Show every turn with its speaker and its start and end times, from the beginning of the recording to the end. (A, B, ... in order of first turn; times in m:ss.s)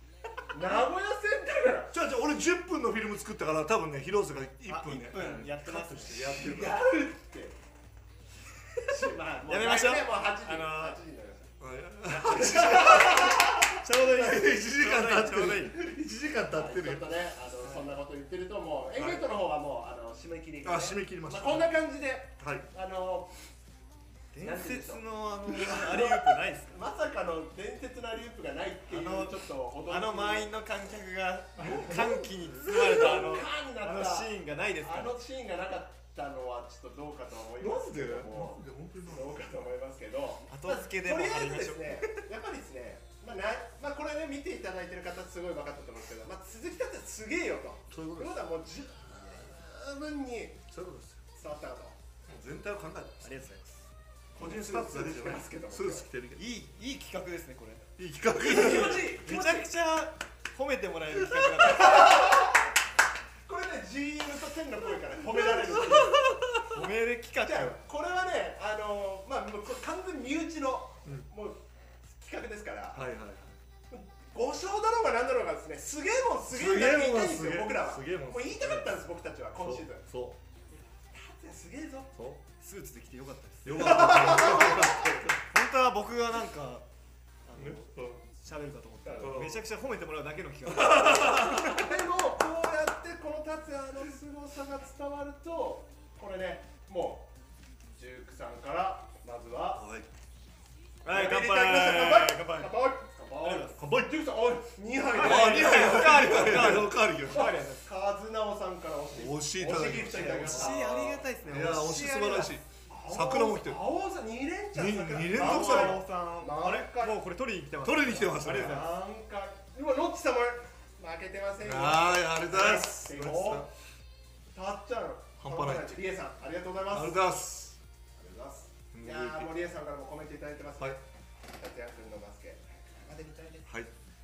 0:00.5-0:01.9 A
0:01.9-0:06.8 B
0:04.6-0:06.4 C
0:06.3-0:07.6 A
0:08.9-0:11.6 A
0:09.5-0:11.0 C
0:11.6-0:17.2 B
0:12.2-0:15.8 C
0:12.2-0:13.4 A
0:16.5-0:23.3 A
0:19.0-0:19.2 B
0:20.6-0:21.8 B
0:22.4-0:22.7 B
0:24.3-0:26.7 C
0:24.4-0:30.5 A
0:28.9-0:35.2 C
0:31.6-0:31.9 A
0:31.6-0:33.3 B
0:32.6-0:50.6 A
0:37.6-0:39.7 B
0:40.5-0:42.2 C
0:47.9-0:48.4 B
0:50.7-0:51.2 B
0:51.3-0:52.0 A
0:52.3-0:53.4 B
0:53.2-0:53.9 C
0:54.3-0:56.4 B
0:54.3-0:56.1 A
0:56.4-0:57.9 C
0:58.0-0:59.2 B
0:58.4-0:59.7 A
0:58.7-1:02.4 C
1:01.2-1:01.8 B
1:01.6-1:02.6 A
1:03.4-1:06.4 A
1:05.3-1:06.8 B
1:06.6-1:07.8 C
1:07.4-1:13.2 A
1:12.9-1:13.6 B
1:13.9-1:20.0 A
1:16.5-1:20.4 B
1:21.1-1:22.1 A
1:22.1-1:22.4 B
1:22.6-1:26.9 C
1:23.6-1:25.3 B
1:23.8-1:25.2 A
1:27.4-1:31.9 C
1:27.6-1:28.2 B
1:29.0-1:29.4 A
1:29.2-1:29.6 B
1:30.7-1:31.7 B
1:31.3-1:37.3 A
1:37.9-1:39.8 A
1:39.7-1:40.1 B
1:41.0-1:42.8 C
1:41.1-1:51.2 A
1:43.4-1:43.8 C
1:43.8-1:44.1 B
1:45.1-1:47.6 B
1:45.1-1:47.9 C
1:49.1-1:53.8 B
1:50.1-1:52.6 C
1:52.9-1:57.2 A
1:54.7-1:56.0 B
1:55.3-1:59.0 C
1:57.8-1:58.9 B
1:58.5-2:03.7 A
2:01.6-2:03.7 B
2:04.5-2:07.2 A
2:05.4-2:06.0 B
2:06.9-2:07.8 B
2:08.1-2:13.7 A
2:08.9-2:09.5 B
2:13.6-2:13.9 B